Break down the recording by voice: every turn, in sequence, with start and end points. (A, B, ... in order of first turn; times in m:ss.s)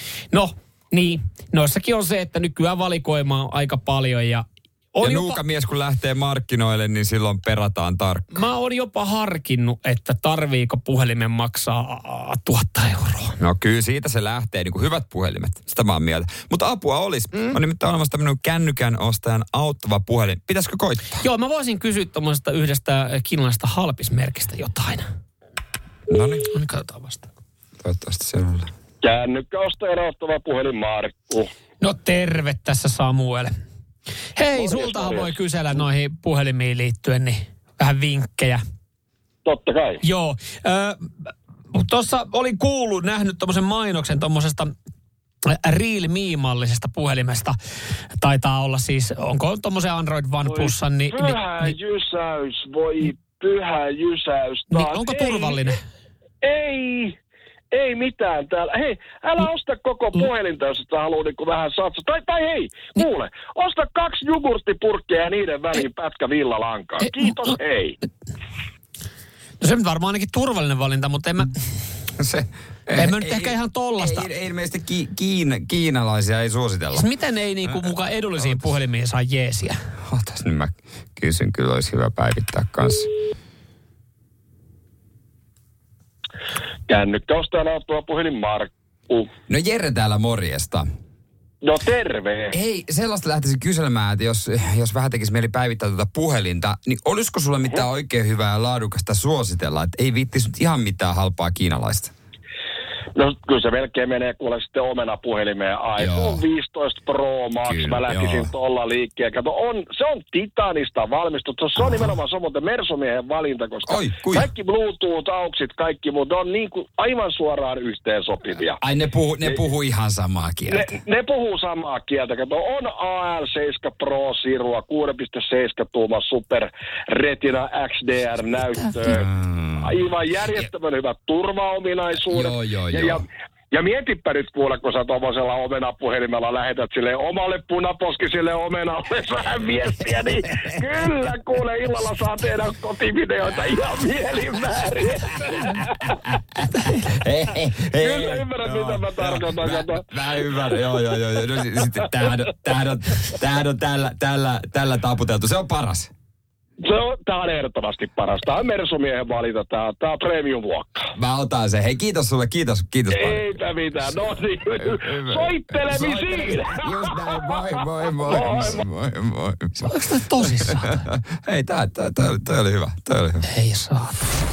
0:00.3-0:05.4 A
0:05.0-0:08.4 B
0:08.3-0:13.4 A
0:13.4-0:21.2 B
0:21.1-0:25.1 A
0:26.1-0:26.5 B
0:26.5-0:27.3 A
0:27.8-0:28.7 B
0:29.0-0:31.5 C
0:31.8-0:33.5 A
0:34.4-0:38.6 A
0:34.6-0:35.3 C
0:39.4-0:40.0 C
0:40.0-0:41.1 A
0:41.7-0:44.7 A
0:45.4-0:47.6 A
0:48.2-0:51.7 A
0:50.4-0:55.7 C
0:54.7-0:55.8 A
0:56.4-0:57.2 C
0:57.7-1:08.0 C
1:09.6-1:11.5 A
1:12.2-1:17.1 B
1:12.9-1:14.3 A
1:16.9-1:19.8 A
1:20.0-1:23.1 B
1:26.9-1:29.3 C
1:29.5-1:30.9 B
1:31.6-1:32.6 C
1:32.5-1:42.1 B
1:43.2-1:58.8 C
1:46.0-1:46.4 B
1:47.6-1:48.5 B
1:51.8-1:52.1 B
1:53.8-1:54.5 B
1:58.8-2:00.9 B
2:00.7-2:26.1 C
2:09.1-2:10.0 B
2:12.3-2:13.2 B
2:26.2-2:36.1 B
2:27.9-2:30.8 C
2:36.8-2:41.1 C
2:41.2-2:43.6 B
2:43.1-2:48.8 C
2:44.8-2:53.5 B
2:49.8-2:51.0 A
2:53.5-2:54.2 A